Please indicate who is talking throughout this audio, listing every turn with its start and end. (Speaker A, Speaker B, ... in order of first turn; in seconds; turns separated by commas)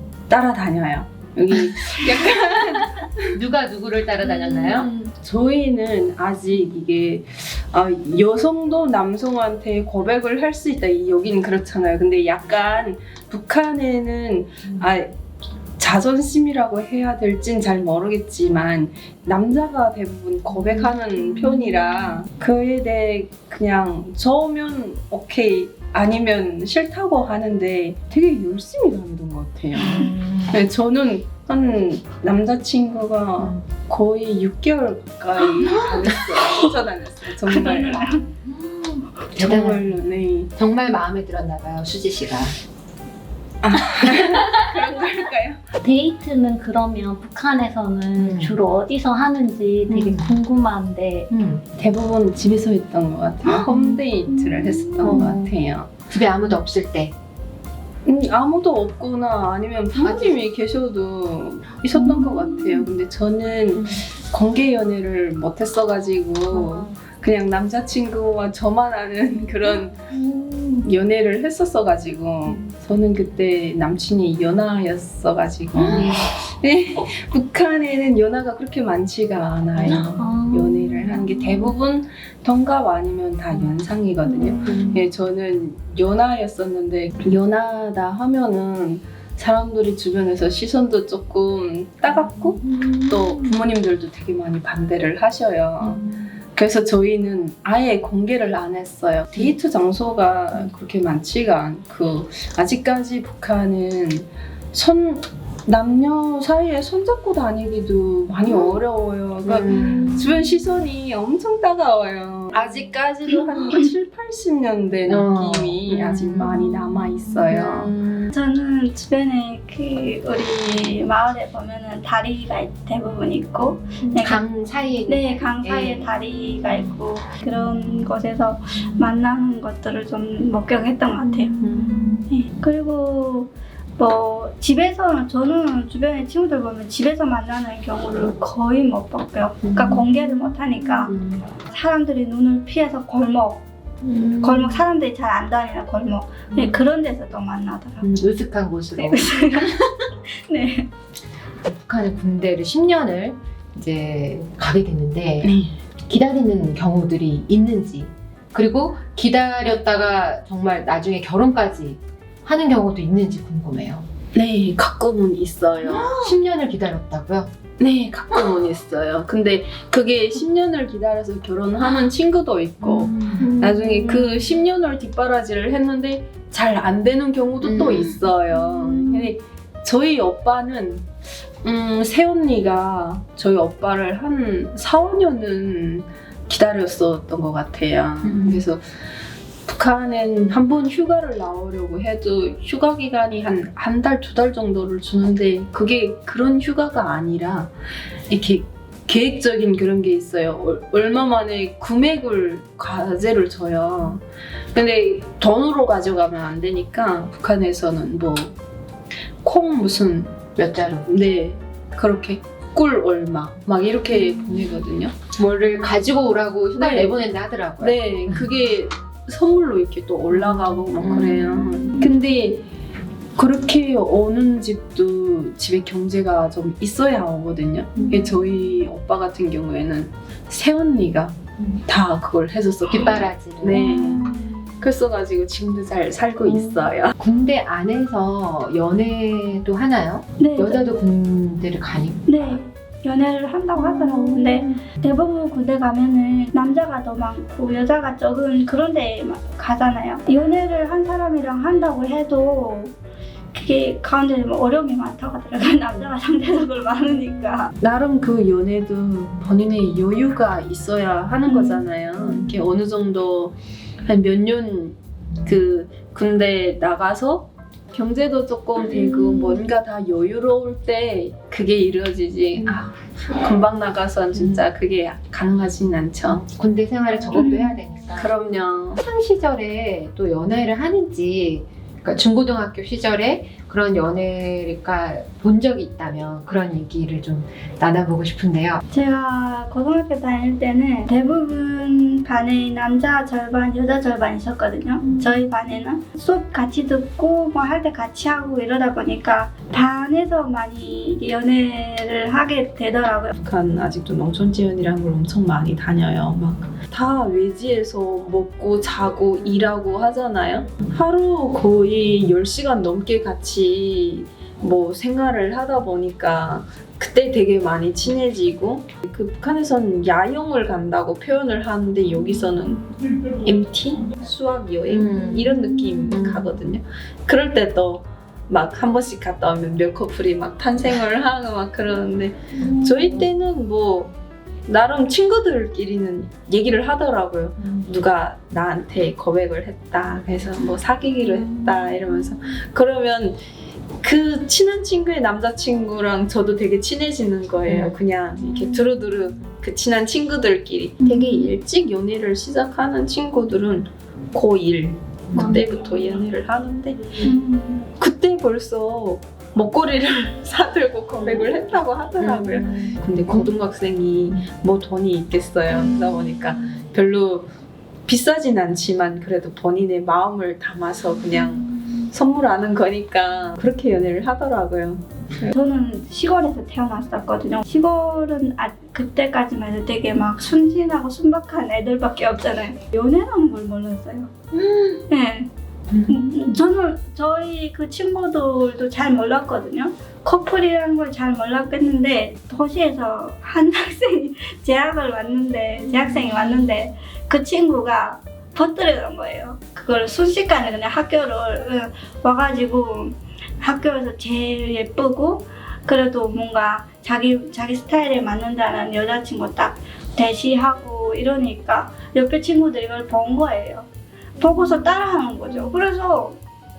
Speaker A: 0.3-3.1, Speaker B: 3.3-4.9, Speaker A: 4.4-15.2, Speaker A: 15.8-38.0, Speaker C: 37.4-38.3, Speaker B: 39.3-39.8, Speaker A: 39.4-40.5, Speaker B: 40.5-42.5, Speaker A: 43.6-45.6, Speaker D: 45.8-51.3, Speaker B: 48.1-48.6, Speaker B: 49.9-50.3, Speaker B: 51.3-51.6, Speaker A: 51.8-55.9, Speaker D: 53.5-55.3, Speaker B: 55.0-55.5, Speaker B: 56.1-57.1, Speaker A: 58.0-70.0, Speaker B: 60.0-60.4, Speaker D: 62.0-62.9, Speaker D: 66.5-66.9, Speaker D: 70.1-70.8, Speaker A: 70.8-117.9, Speaker B: 75.8-76.2, Speaker D: 79.8-81.7, Speaker D: 84.3-84.9, Speaker B: 84.6-85.0, Speaker D: 92.7-93.1, Speaker B: 109.4-110.3, Speaker B: 115.1-118.3, Speaker C: 118.3-124.4, Speaker B: 124.1-126.1, Speaker C: 125.1-131.6, Speaker B: 131.6-132.0, Speaker C: 132.2-143.6, Speaker B: 139.6-140.0, Speaker B: 141.0-141.4, Speaker B: 144.0-144.8, Speaker C: 144.4-148.0, Speaker B: 148.0-149.7, Speaker C: 149.0-150.9, Speaker B: 151.7-155.5, Speaker A: 155.4-155.7, Speaker B: 156.1-164.1, Speaker A: 164.3-166.3, Speaker B: 165.8-167.5, Speaker A: 167.8-181.1, Speaker B: 172.8-173.5, Speaker D: 173.4-174.5, Speaker B: 177.6-178.2, Speaker D: 178.6-179.3, Speaker A: 181.6-188.8, Speaker B: 188.2-188.6, Speaker A: 189.7-197.7, Speaker A: 198.3-208.5, Speaker A: 209.4-210.4, Speaker B: 210.6-211.1, Speaker A: 211.1-215.2, Speaker B: 215.3-218.4, Speaker A: 216.8-217.2, Speaker A: 217.8-222.7, Speaker B: 220.3-222.0, Speaker A: 223.3-237.1, Speaker B: 232.8-234.0, Speaker C: 233.8-234.4, Speaker B: 236.4-242.6, Speaker C: 240.4-240.8, Speaker C: 242.3-252.9, Speaker C: 253.5-257.7, Speaker A: 257.8-276.4, Speaker B: 276.3-278.3, Speaker A: 277.3-277.6, Speaker C: 277.4-277.8, Speaker A: 278.1-279.0, Speaker B: 278.9-288.8, Speaker C: 288.9-303.3, Speaker A: 303.4-334.1, Speaker B: 324.9-325.4, Speaker B: 326.1-326.5, Speaker A: 334.7-343.4, Speaker A: 344.0-357.3, Speaker B: 347.7-347.9, Speaker D: 355.4-355.6, Speaker C: 357.2-357.8, Speaker A: 357.9-367.5, Speaker B: 362.2-363.5, Speaker A: 368.1-375.6, Speaker C: 375.5-384.3, Speaker B: 384.6-385.0, Speaker C: 385.1-385.5, Speaker B: 385.9-386.4, Speaker C: 386.0-416.4